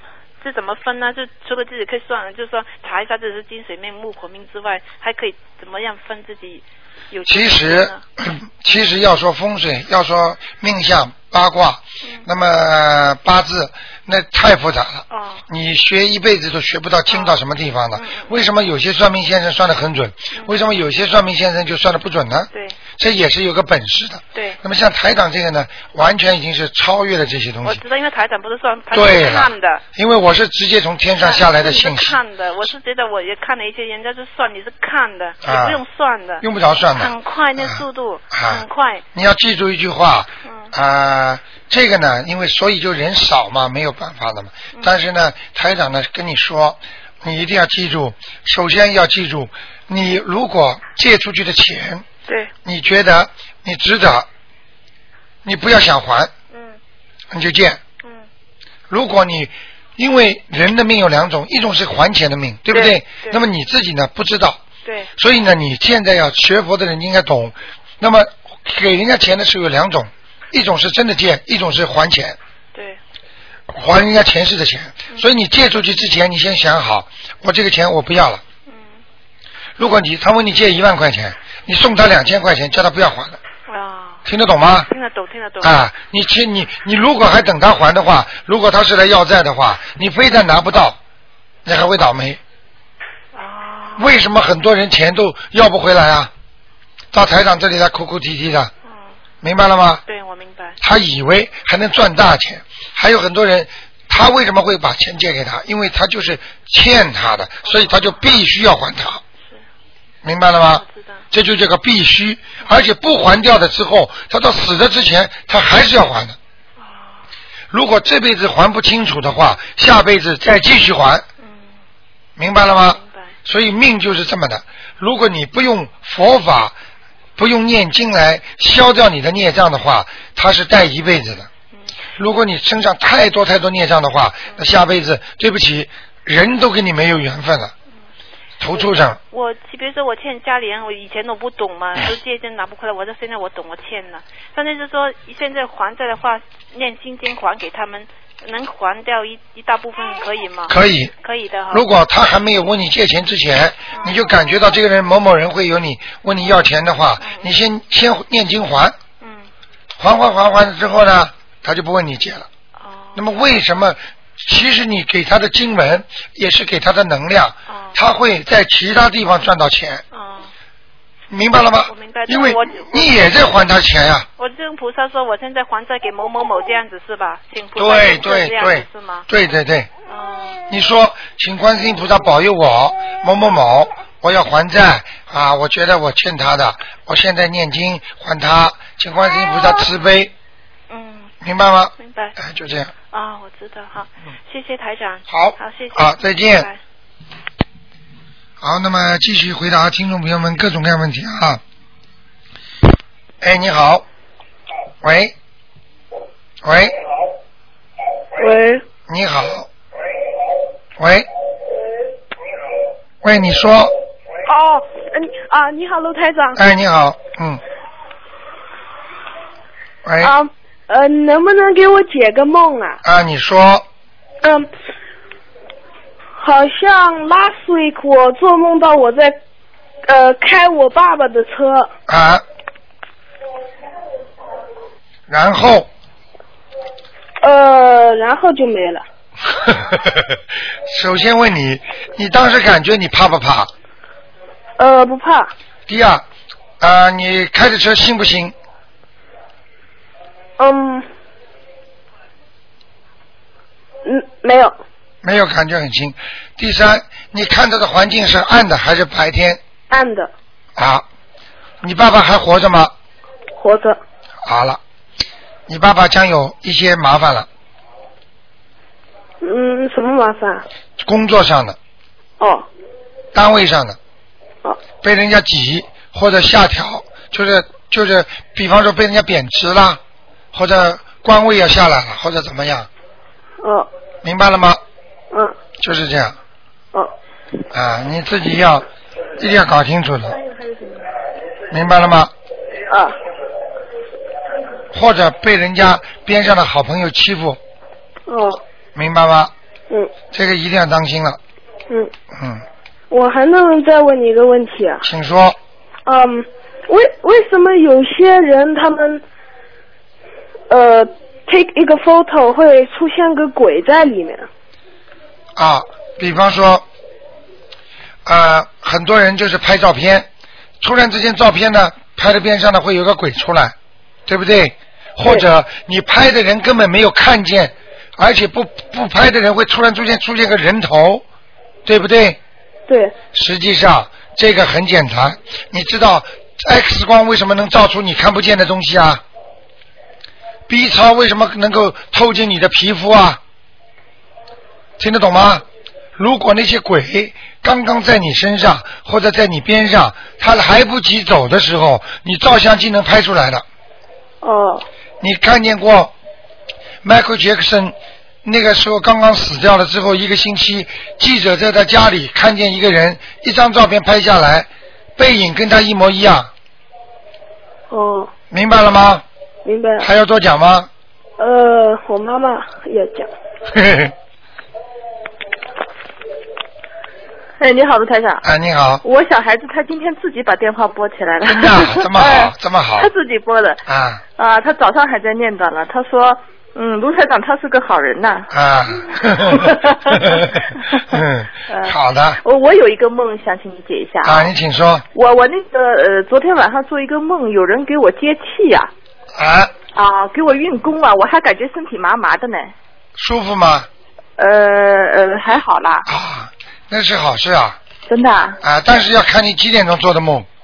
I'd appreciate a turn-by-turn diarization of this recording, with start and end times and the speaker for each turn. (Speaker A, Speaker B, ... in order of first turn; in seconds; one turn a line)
Speaker A: 0.4-8.0
Speaker B: 7.3-27.8
Speaker A: 15.1-15.4
Speaker A: 17.1-17.4
Speaker A: 17.9-18.3
Speaker A: 22.5-22.8
Speaker A: 24.3-24.6
Speaker A: 27.6-29.8
Speaker B: 28.9-32.2
Speaker A: 31.2-39.0
Speaker B: 35.4-35.8
Speaker B: 36.4-52.0
Speaker A: 40.4-40.7
Speaker A: 52.3-52.5
Speaker B: 52.6-54.3
Speaker B: 55.4-56.3
Speaker A: 56.5-56.8
Speaker B: 57.3-57.8
Speaker B: 58.9-64.6
Speaker A: 62.7-63.4
Speaker A: 64.8-65.1
Speaker B: 65.2-72.4
Speaker A: 72.7-73.0
Speaker B: 73.7-78.4
Speaker A: 78.7-79.0
Speaker B: 79.8-83.4
Speaker A: 83.7-84.2
Speaker B: 84.2-84.9
Speaker A: 84.9-85.8
Speaker B: 85.6-91.0
Speaker B: 91.6-92.4
Speaker A: 93.3-94.1
Speaker B: 94.0-96.3
Speaker B: 97.1-98.7
Speaker B: 99.4-100.0
Speaker A: 100.1-100.8
Speaker B: 100.8-109.2
Speaker A: 107.7-108.2
Speaker B: 110.2-116.4
Speaker A: 110.8-111.2
Speaker A: 116.8-117.2
Speaker B: 117.7-121.2
Speaker A: 121.4-121.7
Speaker B: 122.4-126.8
Speaker A: 122.8-123.3
Speaker B: 127.4-131.5
Speaker B: 132.2-137.7
Speaker B: 138.6-139.2
Speaker A: 138.7-151.8
Speaker B: 150.7-151.1
Speaker B: 151.7-158.9
Speaker A: 153.9-154.2
Speaker A: 157.2-157.5
Speaker A: 159.2-159.5
Speaker B: 160.0-162.5
Speaker A: 162.8-163.2
Speaker B: 163.1-170.0
Speaker A: 167.7-167.9
Speaker A: 170.1-170.5
Speaker B: 171.3-174.3
Speaker A: 171.9-173.3
Speaker A: 174.4-179.2
Speaker B: 177.8-179.9
Speaker A: 180.1-180.6
Speaker B: 180.7-190.3
Speaker A: 190.9-191.3
Speaker B: 191.4-192.9
Speaker A: 192.0-192.3
Speaker A: 193.1-196.8
Speaker B: 195.3-196.7
Speaker B: 198.6-201.6
Speaker B: 203.4-204.0
Speaker B: 205.0-205.3
Speaker B: 206.6-207.0
Speaker C: 208.3-208.8
Speaker B: 209.1-209.7
Speaker B: 211.0-211.3
Speaker B: 213.2-213.9
Speaker C: 214.4-216.6
Speaker B: 216.5-217.6
Speaker B: 220.0-220.3
Speaker C: 220.2-223.0
Speaker B: 223.0-223.8
Speaker C: 224.4-224.7
Speaker C: 226.4-229.4
Speaker C: 230.1-231.9
Speaker B: 232.1-232.4
Speaker B: 235.3-235.9
Speaker C: 237.4-239.0
Speaker B: 239.6-240.4
Speaker B: 240.9-243.7
Speaker C: 244.8-245.5
Speaker B: 245.9-246.2
Speaker B: 246.8-248.5
Speaker C: 250.6-251.1
Speaker C: 254.0-254.8
Speaker B: 255.2-259.6
Speaker C: 259.9-260.3
Speaker B: 260.8-261.0
Speaker B: 261.8-262.9
Speaker C: 263.6-264.0
Speaker B: 264.4-264.8
Speaker B: 265.7-267.5
Speaker C: 269.4-270.6
Speaker B: 271.0-271.8
Speaker C: 272.4-272.7
Speaker B: 273.3-274.0
Speaker B: 275.0-280.0
Speaker B: 280.5-282.9
Speaker C: 283.6-283.9
Speaker B: 284.2-284.8
Speaker B: 285.8-286.4
Speaker B: 287.7-288.9
Speaker B: 289.4-290.4
Speaker C: 290.5-290.9
Speaker B: 291.7-292.3
Speaker C: 292.9-293.1
Speaker B: 294.9-297.6
Speaker C: 298.3-298.6
Speaker B: 298.9-299.5
Speaker B: 300.3-301.4
Speaker B: 302.3-302.6
Speaker C: 303.1-305.0
Speaker B: 305.0-305.6
Speaker C: 306.1-309.2
Speaker C: 310.7-314.5
Speaker B: 315.6-316.8
Speaker B: 318.2-320.3
Speaker B: 320.8-323.7
Speaker B: 324.3-331.2
Speaker B: 331.9-332.4
Speaker C: 332.9-333.1
Speaker B: 333.3-339.2
Speaker B: 340.7-343.4
Speaker B: 345.0-345.6
Speaker B: 346.1-353.6
Speaker C: 354.4-354.9
Speaker B: 355.2-356.1
Speaker B: 357.0-366.5
Speaker C: 367.9-368.3
Speaker B: 368.5-369.2
Speaker C: 369.6-370.1
Speaker B: 370.0-370.9
Speaker C: 371.4-373.3
Speaker B: 373.7-374.1
Speaker D: 377.6-378.4
Speaker B: 378.4-379.0
Speaker D: 379.0-383.8
Speaker B: 381.4-383.1
Speaker B: 383.9-384.2
Speaker D: 384.4-388.5
Speaker B: 388.5-392.4
Speaker D: 389.4-394.5
Speaker B: 394.2-395.0
Speaker D: 395.1-398.9
Speaker B: 399.3-399.7
Speaker D: 399.9-402.7
Speaker B: 403.1-403.9
Speaker D: 404.4-406.1
Speaker B: 406.1-407.8
Speaker D: 408.1-408.6
Speaker B: 408.6-410.5